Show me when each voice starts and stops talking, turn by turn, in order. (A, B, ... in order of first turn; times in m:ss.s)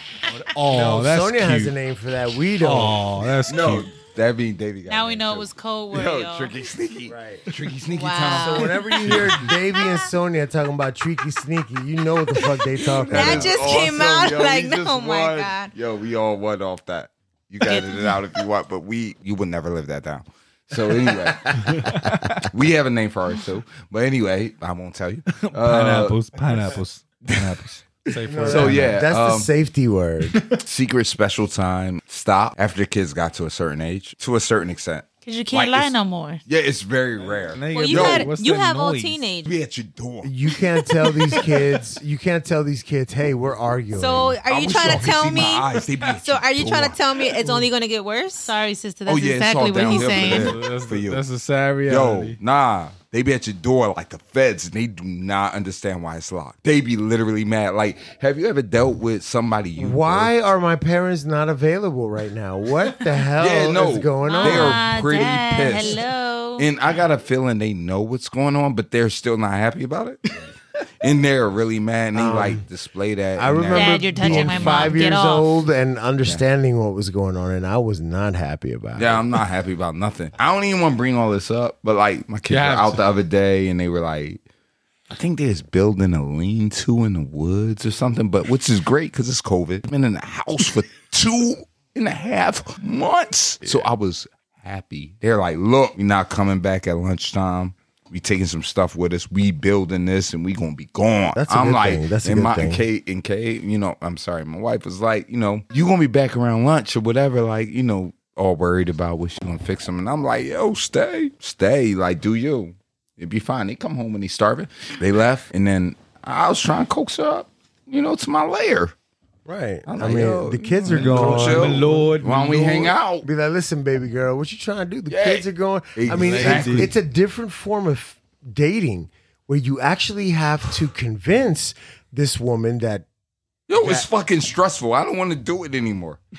0:00.3-0:01.7 A
0:00.6-0:03.1 B
0:02.6-0:03.9 A
0:03.4-0:09.5 C
0:04.9-0:06.5 D
0:07.1-0:07.4 B
0:07.9-0:08.7 E
0:08.4-0:13.7 B
0:12.8-0:26.2 C
0:13.0-0:15.7 E
0:17.6-0:18.2 D
0:21.0-0:21.9 B
0:21.7-0:22.4 A
0:25.3-0:29.0 A
0:27.3-0:27.6 C
0:28.2-0:30.4 B
0:28.4-0:29.5 C
0:30.6-0:35.9 C
0:35.2-0:36.4 D
0:36.5-0:38.3 C
0:37.5-0:39.2 A
0:37.7-0:39.5 E
0:39.4-0:40.3 C
0:40.2-0:45.2 B
0:43.9-0:48.5 E
0:44.4-0:47.0 C
0:48.4-0:50.6 D
0:49.0-0:51.2 C
0:49.8-0:52.4 A
0:51.9-1:00.3 C
0:59.8-1:04.8 B
1:03.4-1:06.0 C
1:04.2-1:06.7 D
1:06.6-1:15.0 C
1:12.1-1:12.6 B
1:13.4-1:19.2 B
1:13.7-1:15.5 D
1:18.9-1:24.4 C
1:22.5-1:23.0 A
1:25.1-1:58.9 C
1:41.4-1:42.8 B
1:59.4-2:02.2 B
1:59.8-2:03.3 C
2:00.8-2:02.9 A
2:03.2-2:13.0 B
2:05.1-2:06.9 C
2:06.0-2:06.9 A
2:13.7-2:16.2 C
2:13.8-2:14.0 B